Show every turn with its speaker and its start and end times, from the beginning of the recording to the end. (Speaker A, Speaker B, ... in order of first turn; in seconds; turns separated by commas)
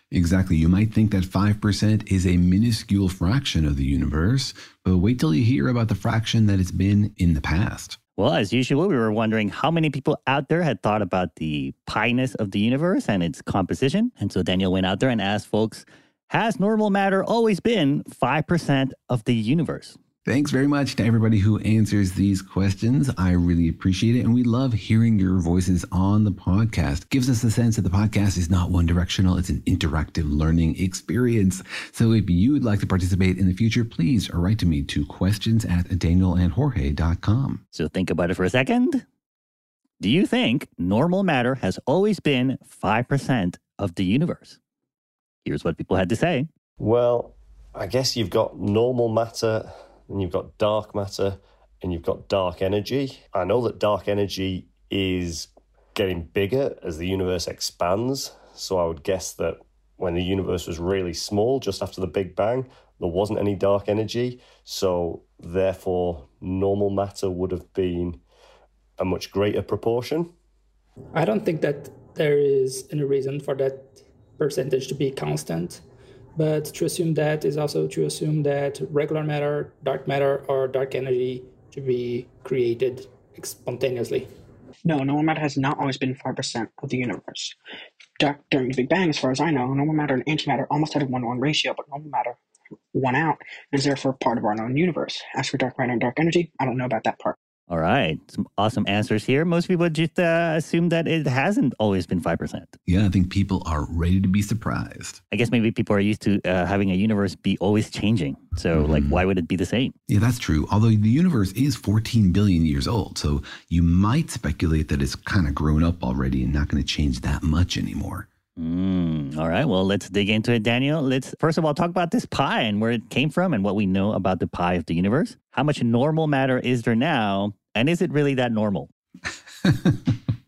Speaker A: 0.1-8.0, Speaker B: 8.2-19.9, Speaker A: 20.2-37.6, Speaker B: 37.7-39.0, Speaker B: 40.0-44.6, Speaker B: 45.4-46.5, Speaker C: 46.8-68.2, Speaker C: 69.0-70.3, Speaker D: 71.1-75.8, Speaker D: 76.3-84.3, Speaker E: 84.8-87.5, Speaker E: 88.2-92.4, Speaker E: 92.9-97.3, Speaker B: 97.7-102.7, Speaker A: 102.9-105.2, Speaker B: 105.3-109.9, Speaker A: 108.7-109.2, Speaker A: 110.1-118.3, Speaker B: 118.6-128.9, Speaker A: 129.6-130.2